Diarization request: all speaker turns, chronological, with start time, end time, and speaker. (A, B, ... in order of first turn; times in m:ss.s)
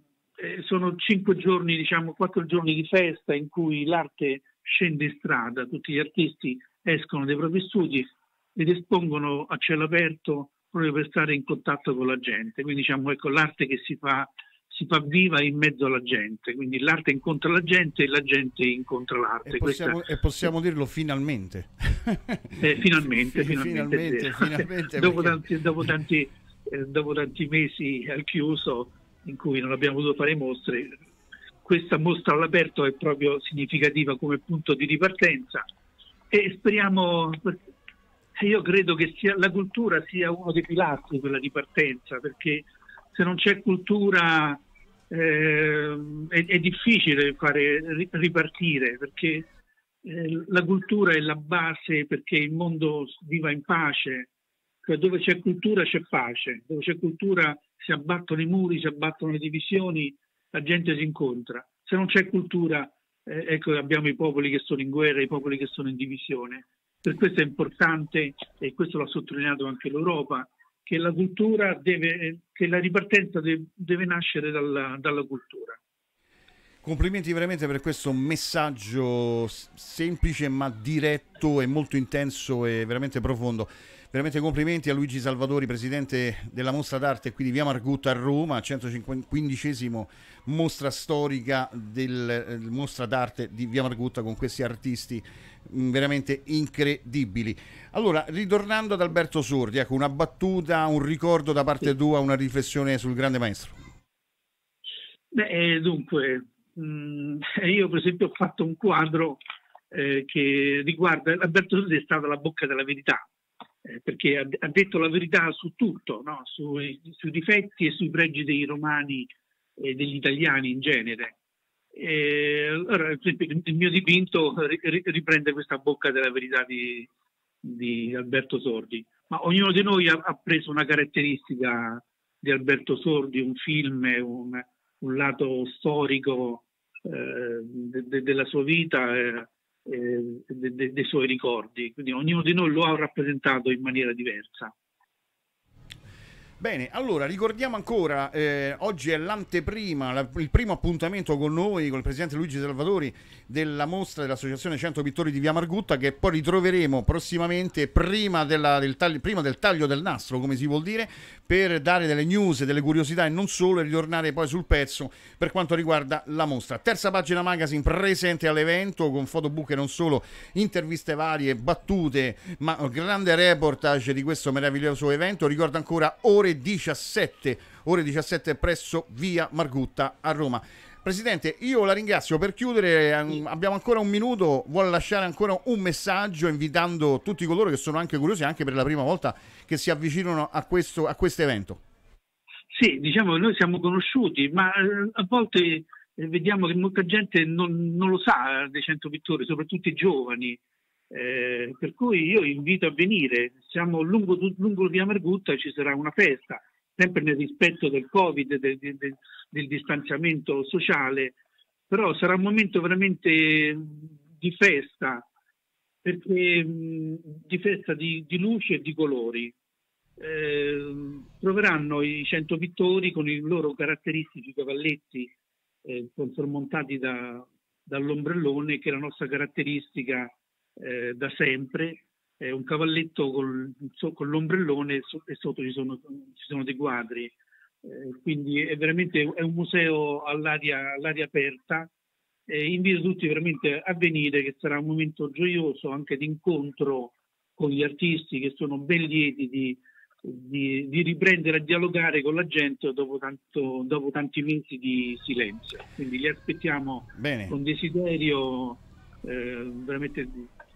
0:00.4-0:20.0 A
0:19.4-0:22.6 B
0:22.6-0:31.0 A
0:23.3-0:25.4 B
0:31.6-0:35.6 A
0:36.3-0:37.6 A
0:38.4-0:49.5 A
0:50.0-0:54.3 A
0:54.8-1:15.8 A
1:16.8-1:43.8 B
1:45.3-1:49.4 A
1:49.9-1:53.2 A
1:53.8-2:01.4 A
2:01.9-2:07.1 A
2:07.6-2:24.7 A
2:26.6-3:11.8 B
3:12.7-3:20.6 A
3:21.1-3:31.4 A
3:31.9-3:35.3 A
3:36.0-3:39.5 A
3:40.2-3:45.3 A
3:45.8-4:01.9 A
4:02.5-4:20.5 A
4:17.2-4:17.5 B